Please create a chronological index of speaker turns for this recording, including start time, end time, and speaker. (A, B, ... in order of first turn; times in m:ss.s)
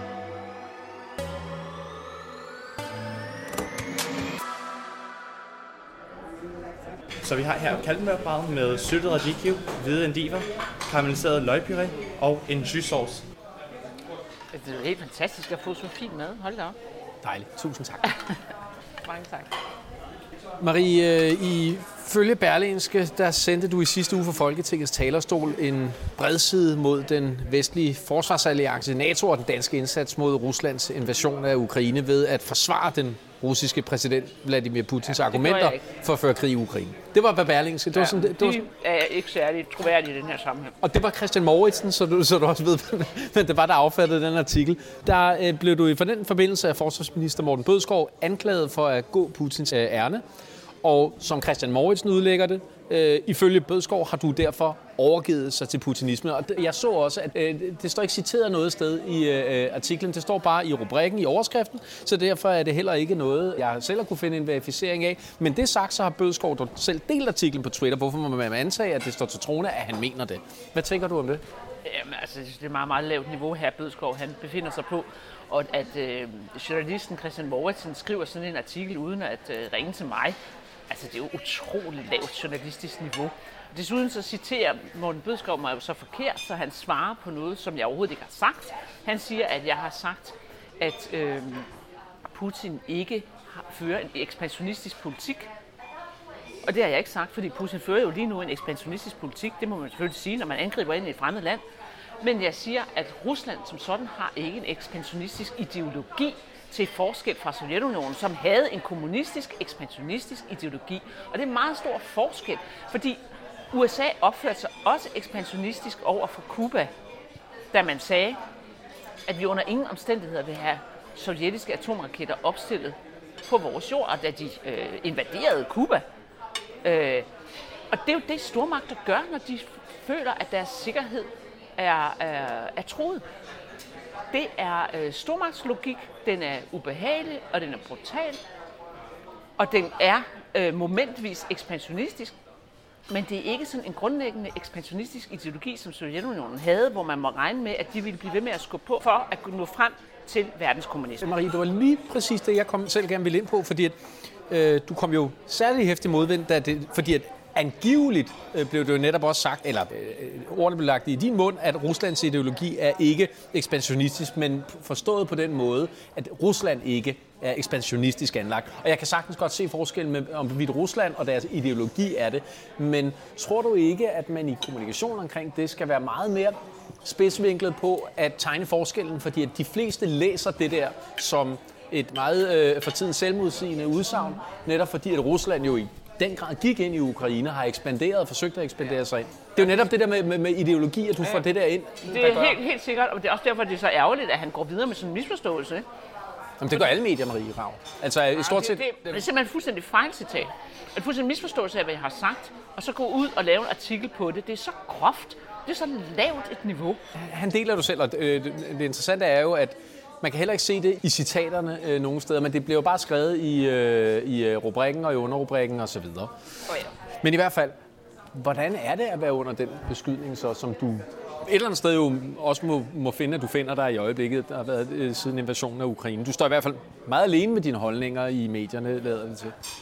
0:07.2-0:13.2 A
0:14.5-0:16.8 B
0:17.2-0:18.2 C
0:19.0-0:19.5 B
0:20.6-0:38.6 C
0:35.1-0:35.8 B
0:37.9-0:40.8 B
0:40.8-0:50.2 C
0:50.8-1:11.4 C
1:11.8-1:20.4 B
1:20.9-1:31.7 B
1:32.3-1:35.5 B
1:36.6-1:41.6 B
1:42.2-1:53.2 B
1:53.7-1:56.9 B
1:57.7-1:58.4 B
1:59.3-2:06.0 B
2:06.8-2:07.3 B
2:07.9-2:13.2 B
2:14.3-2:18.4 B
2:19.6-2:22.4 B
2:23.1-2:31.3 B
2:31.2-2:34.0 C
2:34.5-3:12.6 C
3:12.0-3:15.9 B
3:16.6-3:19.2 C
3:18.4-3:27.0 B
3:27.1-3:36.3 C
3:37.2-3:37.8 C
3:38.3-3:49.6 C